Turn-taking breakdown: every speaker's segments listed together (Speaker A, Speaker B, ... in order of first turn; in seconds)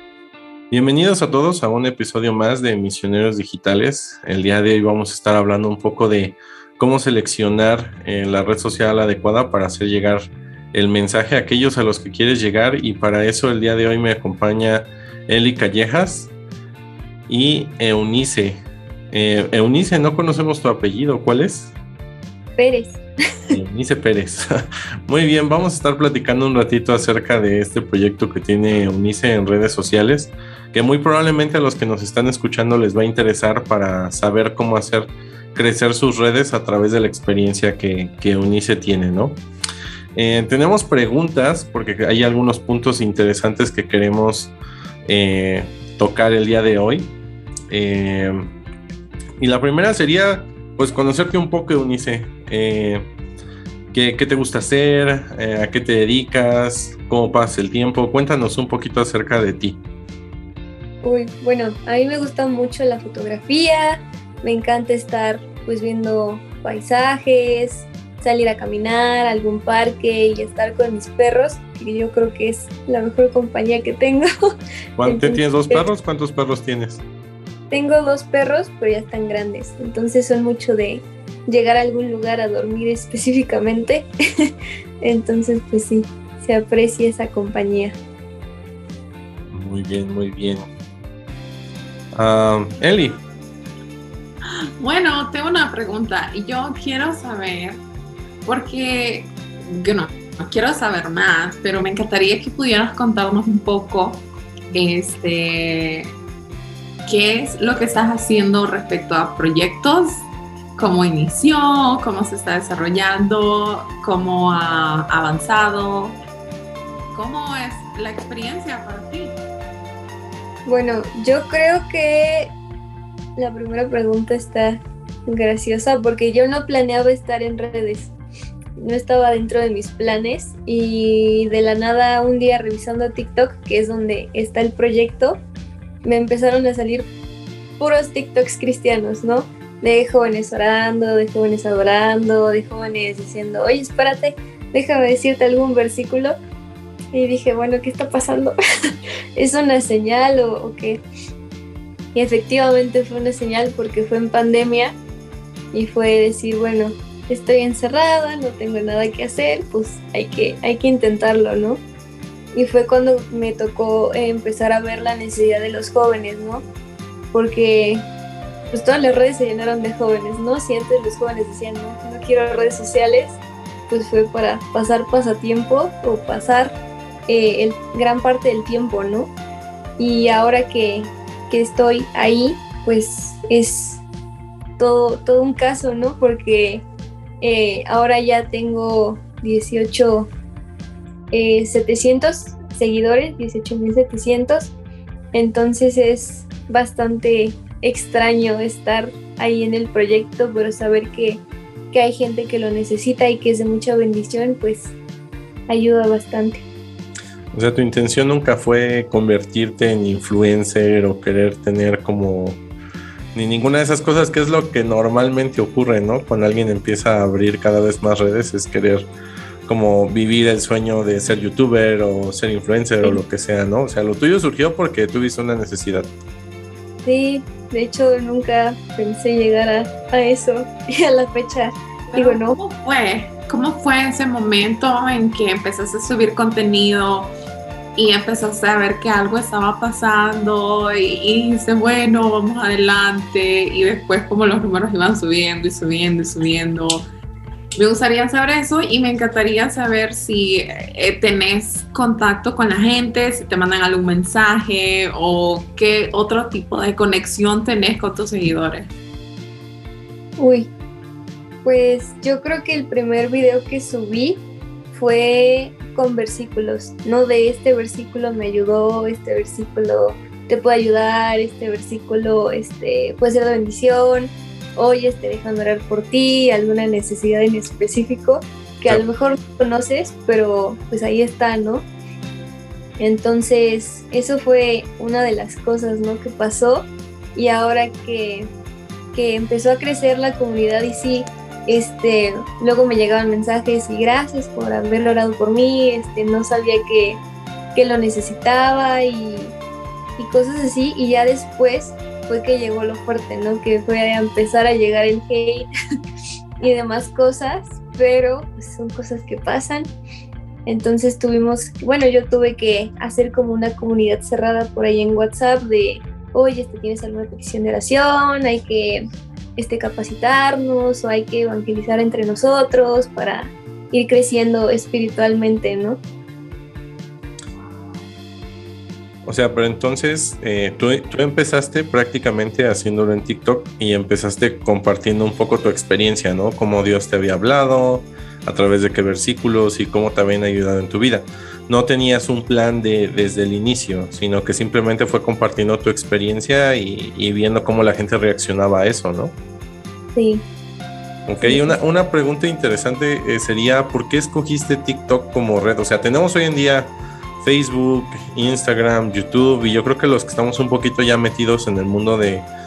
Speaker A: 0.7-16.3, 17.3-21.7, 23.5-24.5, 25.1-39.4, 40.1-44.5, 45.1-47.1, 47.7-48.5, 49.4-53.0, 53.9-59.8, 75.0-77.0, 89.5-90.7, 92.1-93.2, 207.5-212.6, 213.3-219.1, 219.7-226.1, 329.2-349.4, 351.3-362.5
Speaker B: 22.6-23.6, 61.0-74.3, 75.0-75.9, 77.7-88.0, 120.7-122.5, 123.4-128.1, 128.8-135.4, 136.0-137.1, 137.8-146.4, 147.1-148.6, 149.4-151.0, 152.1-155.0, 155.7-161.8, 162.6-166.7, 167.3-168.1, 168.7-179.3, 180.0-184.0, 184.8-186.8, 187.4-190.3, 191.3-194.7, 195.3-204.9, 205.7-206.6, 227.1-232.6, 260.4-260.7, 261.6-281.9, 283.0-288.5, 289.1-297.2, 297.8-299.6, 300.2-305.7, 306.6-309.9, 310.7-319.0, 319.6-326.0, 350.2-350.4, 351.4-351.8
Speaker C: 94.8-97.8, 98.5-106.2, 107.1-116.2, 117.1-119.4, 232.1-237.3, 238.0-247.1, 247.8-258.9